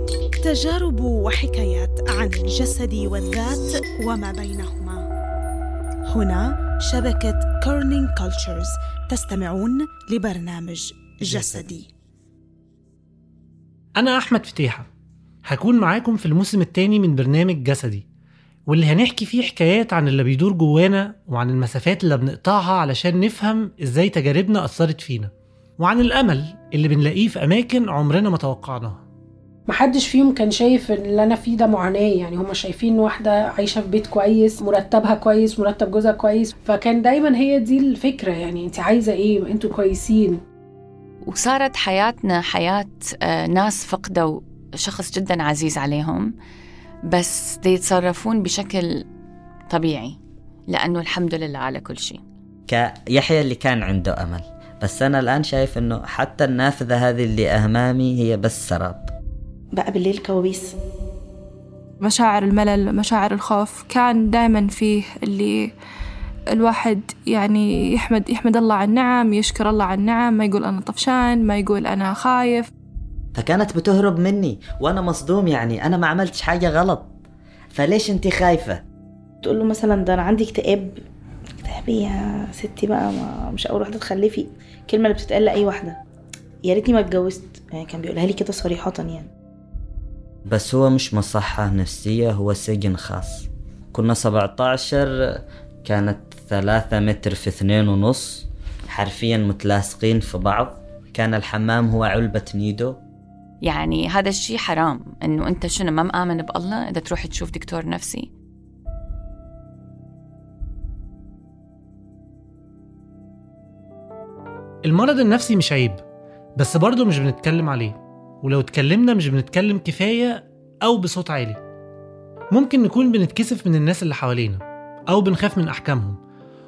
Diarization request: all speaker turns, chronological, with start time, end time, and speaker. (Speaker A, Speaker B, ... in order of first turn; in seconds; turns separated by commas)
Speaker A: 0.4-5.0, Speaker A: 6.1-11.9, Speaker B: 13.9-14.8, Speaker B: 15.4-18.0, Speaker B: 18.7-29.0, Speaker C: 29.7-40.4, Speaker D: 41.2-46.3, Speaker D: 47.1-49.0, Speaker D: 49.7-50.2, Speaker D: 50.7-52.2, Speaker E: 52.7-59.1, Speaker F: 59.7-60.7, Speaker G: 62.0-65.7, Speaker G: 66.5-72.7, Speaker E: 73.3-77.1, Speaker E: 77.7-78.8, Speaker F: 79.4-81.0, Speaker F: 81.6-86.0, Speaker F: 86.7-89.3, Speaker E: 90.5-103.0, Speaker D: 103.6-108.3, Speaker B: 114.8-116.0, Speaker B: 116.6-121.6, Speaker B: 122.5-126.2